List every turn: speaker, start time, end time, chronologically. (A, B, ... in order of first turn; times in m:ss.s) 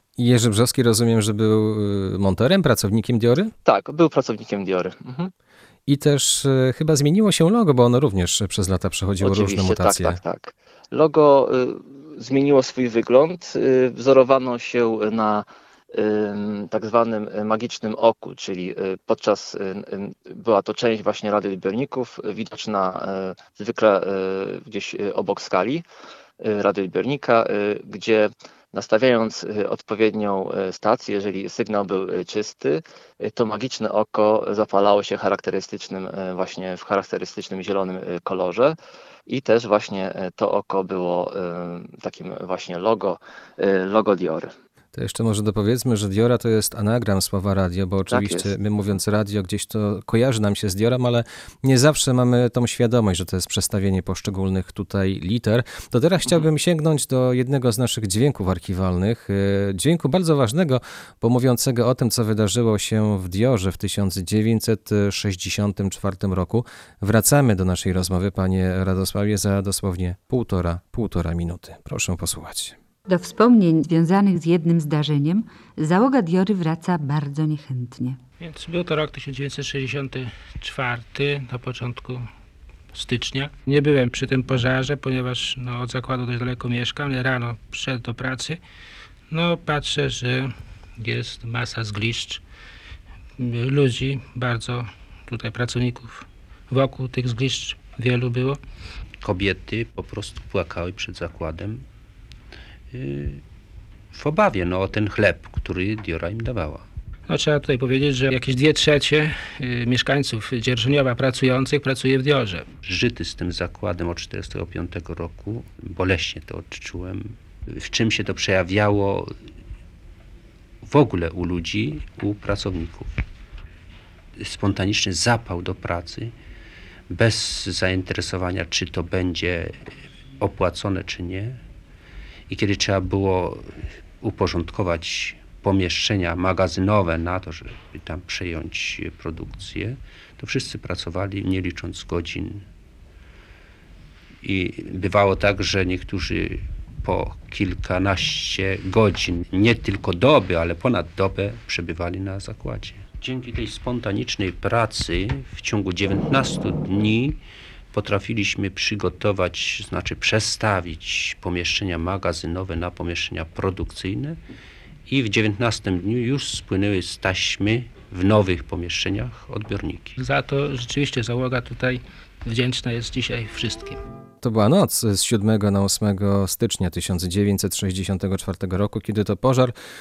0:00.2-0:03.5 A
0:03.6-0:05.3 B
0:05.9-0:10.2 A
0:09.2-0:25.8 B
0:26.4-0:38.8 B
0:39.3-0:44.5 B
0:44.9-1:12.8 A
0:48.1-0:48.5 B
1:13.1-1:18.2 C
1:18.4-1:22.3 D
1:22.9-1:28.6 D
1:29.3-1:32.4 D
1:33.4-1:38.6 D
1:39.2-1:41.8 E
1:42.9-1:43.4 E
1:44.1-1:46.8 E
1:47.3-1:52.7 D
1:52.8-1:59.3 E
2:00.8-2:03.1 E
2:04.4-2:06.3 E
2:07.1-2:09.9 E
2:10.4-2:11.6 E
2:12.5-2:22.6 E
2:24.4-2:37.4 E
2:37.9-2:44.4 E
2:45.1-2:50.1 E
2:50.2-2:54.0 D
2:54.4-2:59.7 A